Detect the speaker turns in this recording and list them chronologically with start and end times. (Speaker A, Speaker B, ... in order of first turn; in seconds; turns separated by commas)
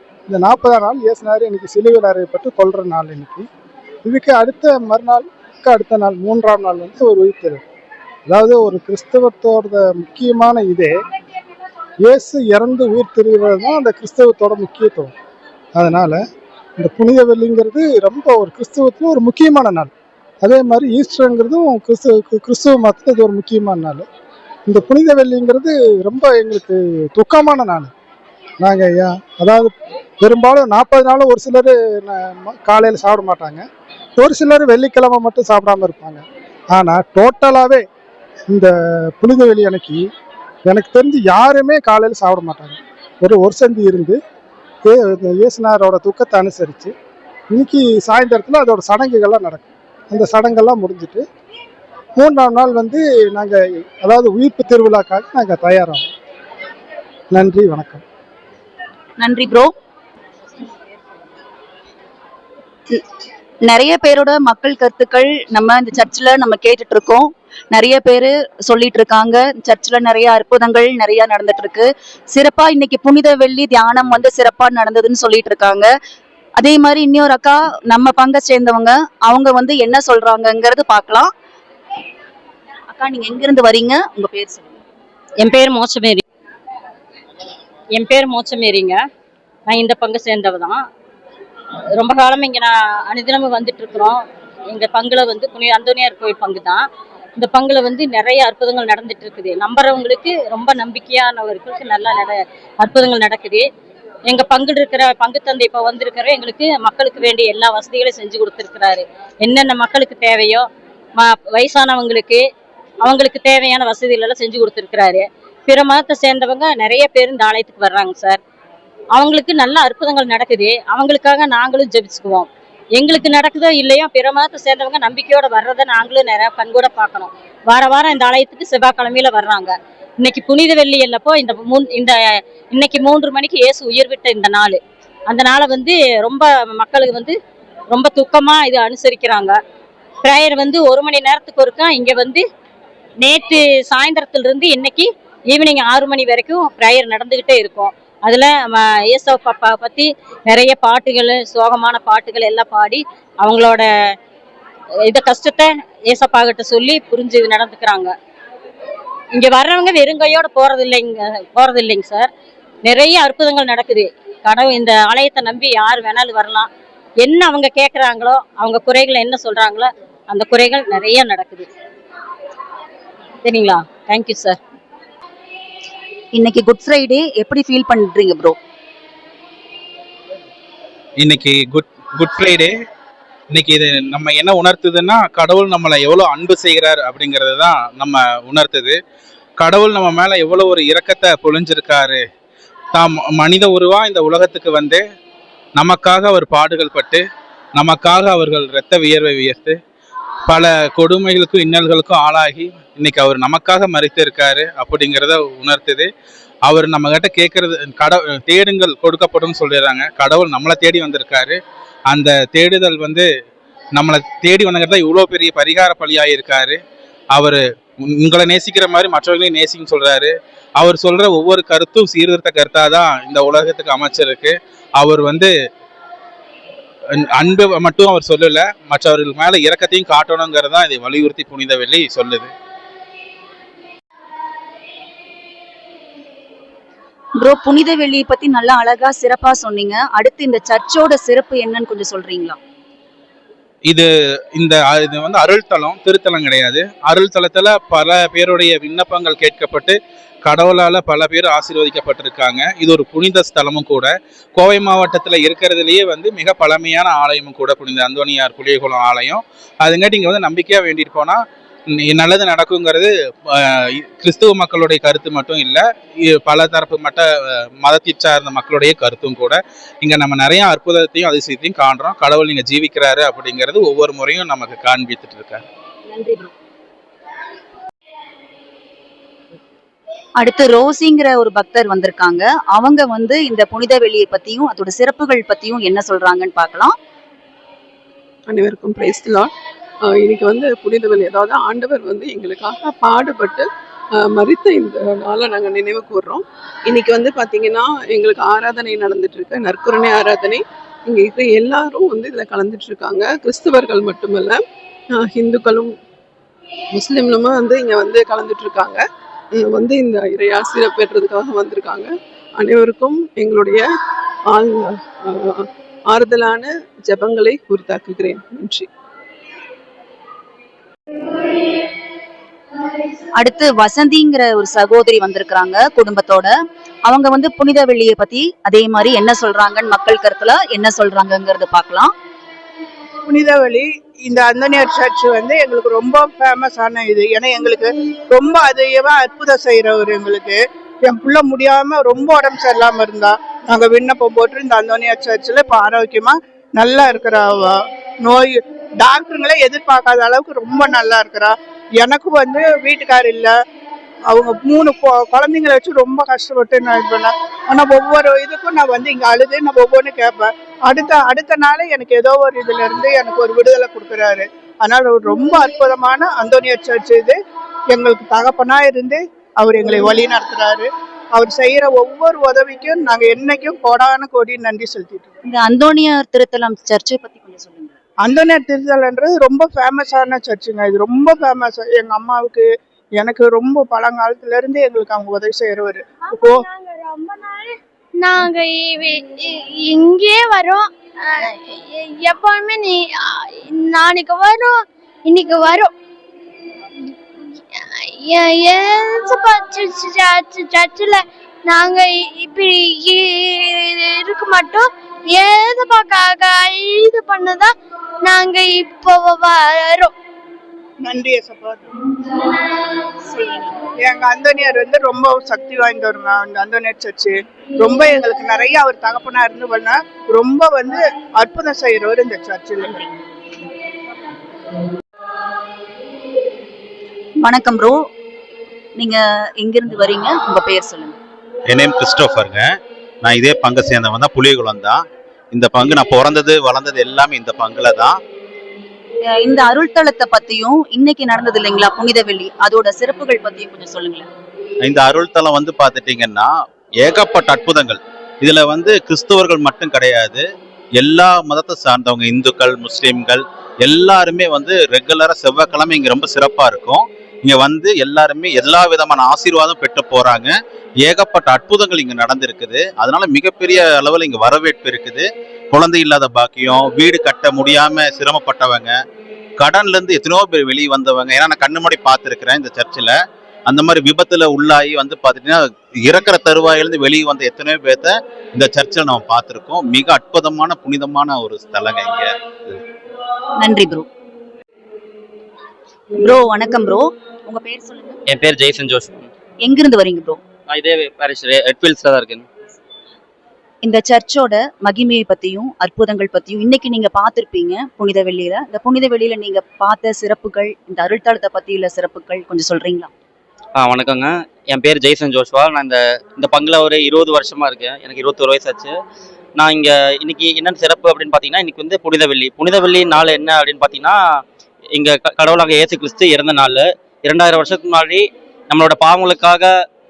Speaker A: 0.3-3.5, Speaker A: 4.0-7.6, Speaker A: 8.3-10.9, Speaker A: 12.0-15.1, Speaker A: 15.8-16.2, Speaker A: 16.8-19.9, Speaker A: 20.4-24.1, Speaker A: 24.7-27.9, Speaker A: 28.6-33.6, Speaker A: 34.2-37.8, Speaker A: 38.5-40.1, Speaker A: 40.7-44.2, Speaker A: 44.8-46.9, Speaker A: 47.5-51.2, Speaker A: 52.1-56.1, Speaker A: 57.3-58.0, Speaker B: 59.2-59.7, Speaker B: 63.6-75.9, Speaker B: 76.6-81.3, Speaker B: 82.9-84.8, Speaker C: 85.4-86.2, Speaker C: 88.0-89.0, Speaker C: 89.7-90.8, Speaker C: 92.0-96.8, Speaker C: 97.4-103.7, Speaker C: 104.3-112.4, Speaker C: 113.0-118.4, Speaker C: 119.1-132.2, Speaker C: 132.7-137.3, Speaker C: 137.9-139.6, Speaker C: 140.2-142.4, Speaker C: 143.2-153.9, Speaker C: 155.1-158.1, Speaker C: 159.3-162.3, Speaker C: 162.8-166.7, Speaker C: 167.2-171.7, Speaker C: 173.4-174.6, Speaker B: 176.3-178.6, Speaker D: 181.2-182.7, Speaker D: 183.5-189.0, Speaker D: 189.6-192.2, Speaker D: 192.9-195.0, Speaker D: 195.8-197.2, Speaker D: 197.8-199.8, Speaker D: 200.5-206.1, Speaker D: 206.7-213.3, Speaker D: 213.9-216.8, Speaker D: 217.3-225.5, Speaker D: 227.2-232.5, Speaker B: 237.4-242.6, Speaker D: 243.9-275.6, Speaker B: 276.1-276.5, Speaker B: 280.4-286.9, Speaker E: 288.5-289.5, Speaker E: 290.1-293.7, Speaker E: 294.2-304.6, Speaker E: 305.1-305.9, Speaker E: 306.9-309.0, Speaker E: 309.6-313.9, Speaker E: 314.5-318.9, Speaker B: 323.4-326.5, Speaker B: 327.1-332.1, Speaker F: 333.3-353.5, Speaker F: 354.3-367.4, Speaker F: 367.9-375.4, Speaker B: 375.4-378.0, Speaker F: 378.2-382.6, Speaker F: 383.2-386.6, Speaker G: 386.3-395.9, Speaker G: 397.7-407.7, Speaker G: 408.2-410.1, Speaker F: 411.0-411.9, Speaker B: 413.2-413.8, Speaker F: 414.0-422.9, Speaker B: 427.4-428.1, Speaker B: 428.9-431.2, Speaker H: 431.7-438.2, Speaker B: 439.3-444.3, Speaker H: 444.8-469.0, Speaker H: 469.6-473.1, Speaker H: 473.7-482.8, Speaker B: 483.6-484.1, Speaker B: 486.2-488.2, Speaker I: 488.3-489.3, Speaker B: 489.6-490.4, Speaker I: 490.7-492.4, Speaker B: 493.8-503.1, Speaker I: 503.8-508.9, Speaker I: 509.6-514.4, Speaker I: 514.9-519.7